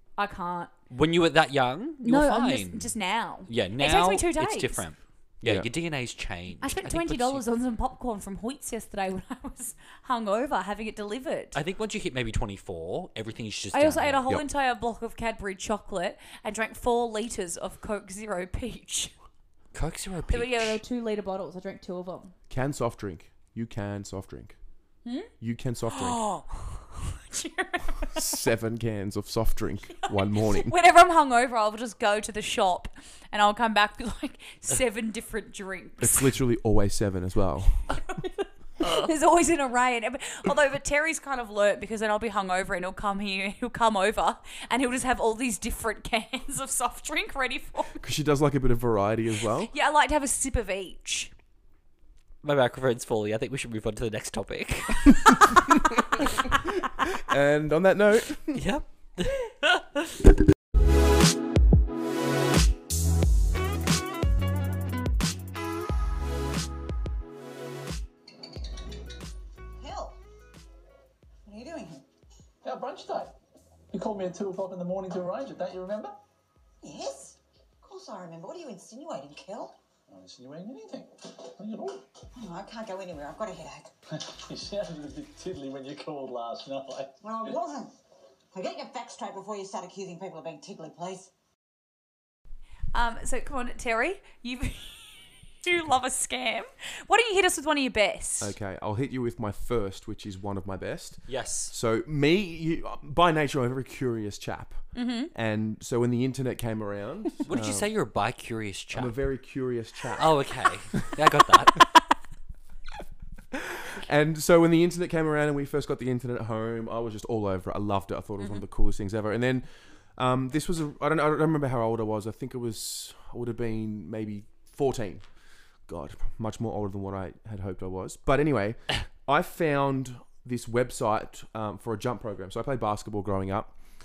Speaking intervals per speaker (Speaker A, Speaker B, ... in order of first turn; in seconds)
Speaker A: 0.2-0.7, 2.0-4.8, 6.6-11.6, 13.7-19.1, 20.3-22.3, 25.1-25.3, 25.9-28.5, 30.1-36.3, 38.0-48.0, 49.7-51.3, 56.2-56.6, 92.9-98.5, 104.9-105.3
Speaker B: 0.9-2.9, 3.5-7.4, 11.6-14.3, 19.7-20.8, 38.8-39.1, 52.4-55.6, 58.5-60.1, 101.3-101.7, 107.5-109.1, 110.2-111.8
Speaker C: 22.5-24.6, 25.4-26.2, 28.1-30.8, 36.0-37.9, 48.0-49.7, 57.2-58.6, 98.4-107.9, 108.9-110.4, 113.5-119.7, 120.2-125.2, 125.9-133.8
Speaker D: 69.8-70.2, 71.5-72.0, 76.8-79.7, 82.4-83.9, 87.2-87.9, 88.5-91.3
Speaker E: 72.6-73.3, 73.9-76.2, 80.1-82.0, 84.1-87.5